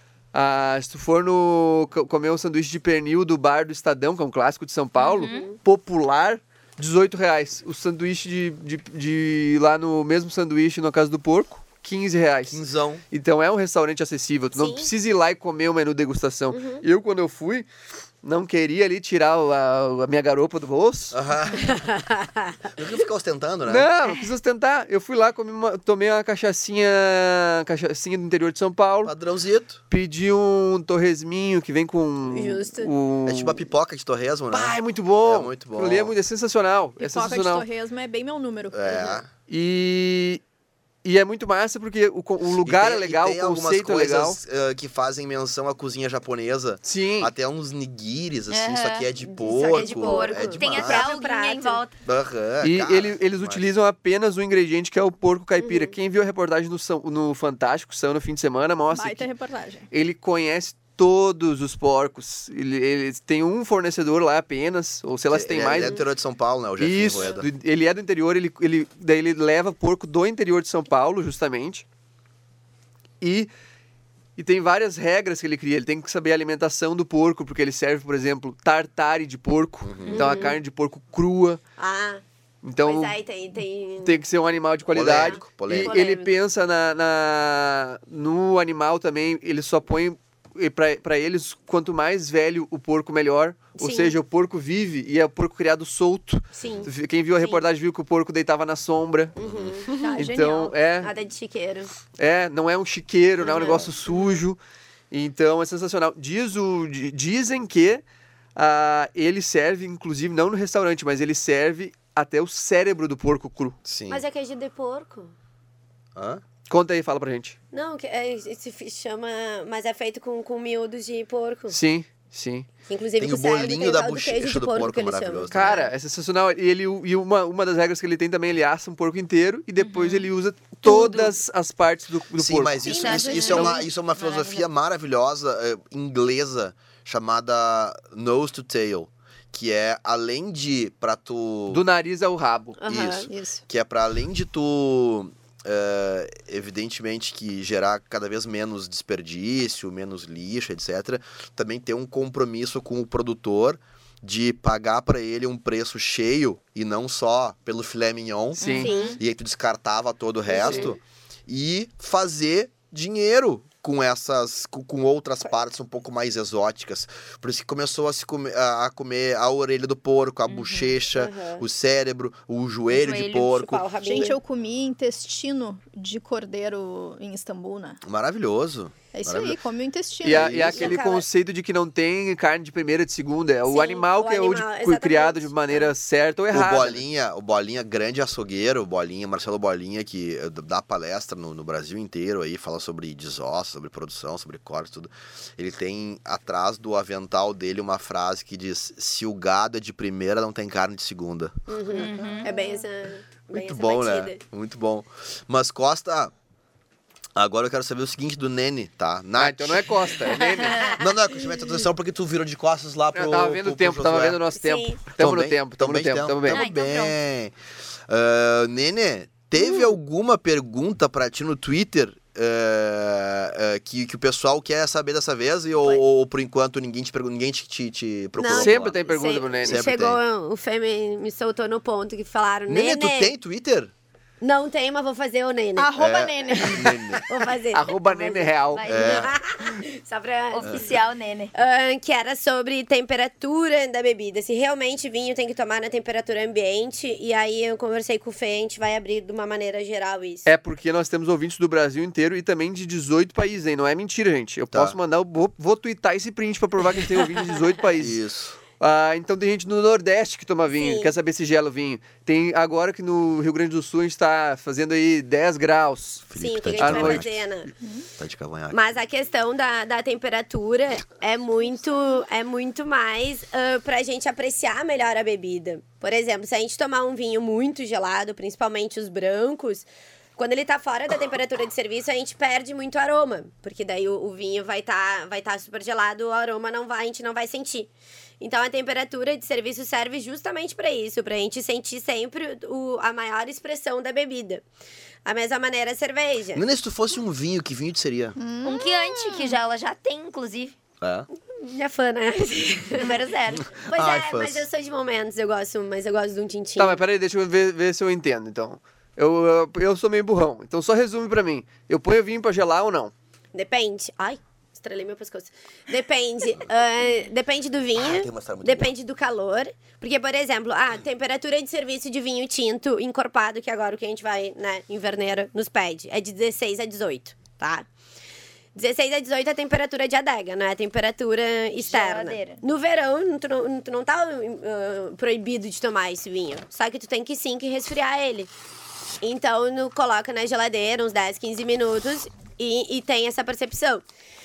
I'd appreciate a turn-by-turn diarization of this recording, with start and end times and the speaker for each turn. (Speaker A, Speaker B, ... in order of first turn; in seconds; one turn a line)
Speaker A: 0.3-17.7
Speaker B: 5.0-5.5
Speaker C: 5.2-5.5
Speaker D: 12.5-13.0
Speaker C: 14.5-14.9
Speaker C: 16.5-16.8
Speaker A: 18.2-21.1
Speaker D: 21.1-21.8
Speaker C: 21.5-22.7
Speaker D: 22.7-23.9
Speaker A: 23.7-29.1
Speaker D: 29.0-29.8
Speaker A: 29.9-33.6
Speaker C: 32.3-32.9
Speaker D: 33.2-36.1
Speaker A: 34.5-37.6
Speaker E: 37.0-38.9
Speaker D: 38.7-39.3
Speaker C: 38.9-39.2
Speaker A: 39.5-40.4
Speaker A: 41.0-44.4
Speaker D: 42.6-51.1
Speaker A: 46.8-47.3
Speaker B: 48.5-49.1
Speaker C: 49.2-51.8
Speaker B: 49.6-51.9
Speaker D: 52.0-53.6
Speaker A: 52.6-59.3
Speaker C: 55.6-55.9
Speaker E: 58.9-59.9
Speaker A: 59.9-66.0
Speaker D: 65.3-67.5
Speaker C: 65.7-66.0
Speaker A: 66.8-71.8
Speaker A: 73.2-73.5
Speaker A: 74.4-81.6
Speaker D: 79.8-80.4
Speaker C: 80.1-80.6
Speaker C: 81.8-82.2
Speaker A: 82.6-83.1
Speaker C: 82.8-84.2
Speaker A: 84.0-99.3
Speaker D: 84.9-86.0
Speaker C: 85.0-86.3
Speaker C: 93.8-94.1
Speaker C: 96.5-97.6
Speaker D: 96.6-96.9
Speaker C: 99.4-100.1
Speaker D: 99.4-99.8
Speaker E: 99.9-100.8
Speaker A: 100.2-101.1
Speaker C: 101.0-101.9
Speaker A: 102.2-104.6
Speaker C: 103.4-104.4
Speaker D: 103.5-103.9
Speaker A: 105.1-108.0
Speaker A: 108.5-113.8
Speaker D: 113.8-114.2
Speaker C: 114.1-115.3
Speaker D: 116.1-116.4
Speaker A: 116.7-117.5
Speaker C: 117.7-121.8
Speaker A: 121.7-122.7
Speaker C: 122.9-125.9
Speaker D: 123.2-125.8
Speaker A: 125.5-133.8
Speaker B: 129.8-130.3
Speaker B: 130.9-131.2
Speaker D: 132.4-141.8
Speaker C: 132.8-133.8
Speaker B: 132.9-134.7
Speaker A: 141.7-142.8
Speaker C: 142.8-143.3
Speaker D: 142.8-173.8
Speaker E: 143.3-143.6
Speaker B: 158.6-159.2
Speaker A: 158.6-158.9
Speaker C: 158.7-159.2
Speaker C: 160.5-161.0
Speaker B: 170.5-170.9
Speaker C: 171.1-171.6
Speaker B: 172.9-173.5
Speaker C: 173.4-174.4
Speaker E: 174.0-178.0
Speaker D: 178.0-179.6
Speaker E: 179.1-180.6
Speaker D: 180.2-181.0
Speaker A: 180.2-187.0
Speaker C: 180.7-181.2
Speaker C: 183.7-185.9
Speaker D: 186.5-201.7
Speaker C: 201.7-204.4
Speaker B: 201.9-202.5
Speaker D: 203.5-206.3
Speaker D: 207.3-210.0
Speaker A: 209.4-211.0
Speaker C: 210.3-211.1
Speaker D: 210.9-214.4
Speaker A: 213.1-216.6
Speaker C: 214.6-215.0
Speaker D: 215.2-217.5
Speaker B: 216.5-217.1
Speaker D: 218.1-229.0
Speaker C: 219.6-219.9
Speaker C: 228.4-233.3
Speaker A: 228.5-229.9
Speaker D: 229.6-230.2
Speaker D: 232.7-233.9
Speaker C: 234.4-236.0
Speaker E: 235.8-236.9
Speaker D: 235.9-237.2
Speaker C: 236.5-240.9
Speaker A: 237.7-238.8
Speaker B: 238.7-239.3
Speaker D: 238.8-239.3
Speaker B: 240.5-241.5
Speaker C: 241.5-250.4
Speaker A: 250.4-258.2
Speaker D: 254.7-255.0
Speaker D: 258.0-258.6
Speaker A: 258.8-267.2
Speaker C: 260.8-261.1
Speaker D: 266.3-267.4
Speaker C: 266.4-267.7
Speaker D: 268.2-268.8
Speaker C: 268.7-294.6
Speaker C: 295.2-296.6
Speaker D: 296.5-298.4
Speaker E: 298.4-299.5
Speaker B: 298.6-300.7
Speaker D: 301.0-301.3
Speaker C: 301.5-303.2
Speaker B: 303.0-303.8
Speaker C: 303.7-307.0
Speaker D: 303.9-304.6
Speaker A: 306.8-313.1
Speaker C: 313.5-327.9
Speaker D: 317.9-318.9
Speaker C: 328.7-338.5
Speaker B: 331.8-332.6
Speaker C: 339.2-344.0